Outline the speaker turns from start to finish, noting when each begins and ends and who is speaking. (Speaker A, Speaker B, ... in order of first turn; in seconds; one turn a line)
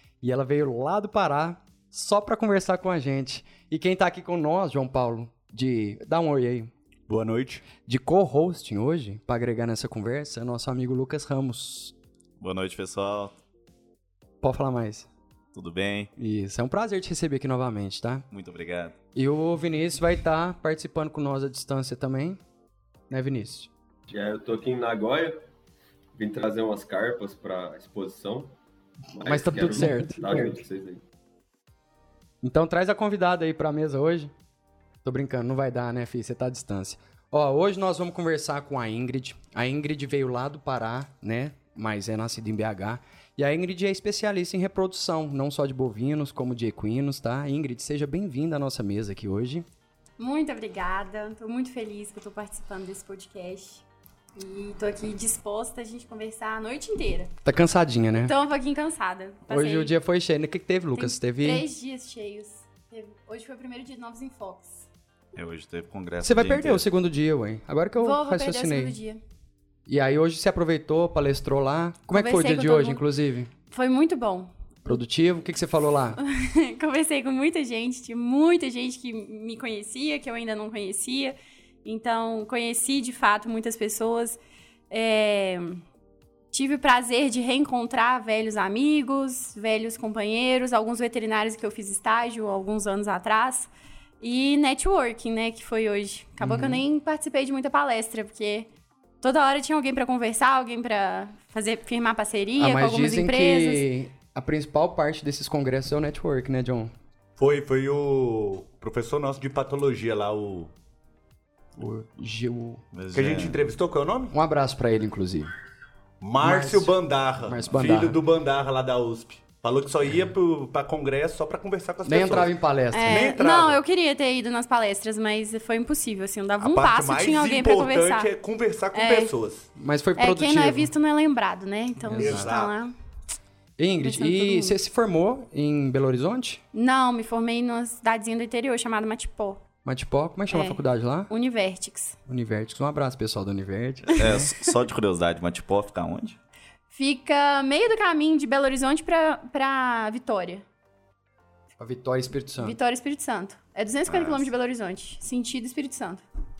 Speaker A: 0.2-6.7
Speaker B: 7.1-7.6
Speaker A: 7.8-11.9
Speaker C: 12.4-13.3
Speaker A: 14.4-15.1
Speaker C: 15.5-16.1
Speaker A: 16.2-18.2
Speaker C: 18.3-18.9
Speaker A: 19.1-22.4
Speaker A: 23.1-23.7
Speaker D: 24.1-25.4
Speaker D: 26.1-28.5
Speaker D: 29.1-31.0
Speaker A: 29.2-30.5
Speaker A: 32.4-34.3
Speaker A: 35.0-49.6
Speaker E: 50.2-53.8
Speaker E: 54.4-57.3
Speaker A: 57.4-58.3
Speaker E: 58.2-59.9
Speaker A: 59.5-61.6
Speaker E: 61.0-64.8
Speaker C: 65.3-66.8
Speaker A: 66.2-68.9
Speaker E: 68.0-69.2
Speaker A: 69.9-73.5
Speaker E: 72.1-73.0
Speaker E: 73.7-75.0
Speaker A: 74.8-76.2
Speaker E: 76.2-84.4
Speaker E: 84.9-85.8
Speaker E: 86.5-93.7
Speaker E: 94.2-98.7
Speaker A: 96.4-96.8
Speaker E: 99.2-103.8
Speaker A: 102.6-106.9
Speaker B: 107.4-110.7
Speaker A: 111.8-112.8
Speaker C: 112.9-113.6
Speaker B: 113.1-114.3
Speaker A: 114.3-115.5
Speaker B: 116.2-123.8
Speaker A: 116.4-118.2
Speaker A: 122.0-123.2
Speaker E: 122.9-128.3
Speaker B: 126.6-129.7
Speaker E: 128.9-129.3
Speaker A: 129.8-130.9
Speaker E: 130.2-132.9
Speaker A: 132.1-132.5
Speaker B: 132.2-132.7
Speaker A: 133.8-136.6
Speaker E: 134.0-134.7
Speaker E: 136.7-139.6
Speaker A: 139.8-141.3
Speaker E: 140.5-142.2
Speaker A: 142.3-144.5
Speaker C: 144.1-146.4
Speaker E: 146.9-150.6
Speaker A: 151.8-152.8
Speaker E: 152.6-156.2
Speaker C: 154.1-154.5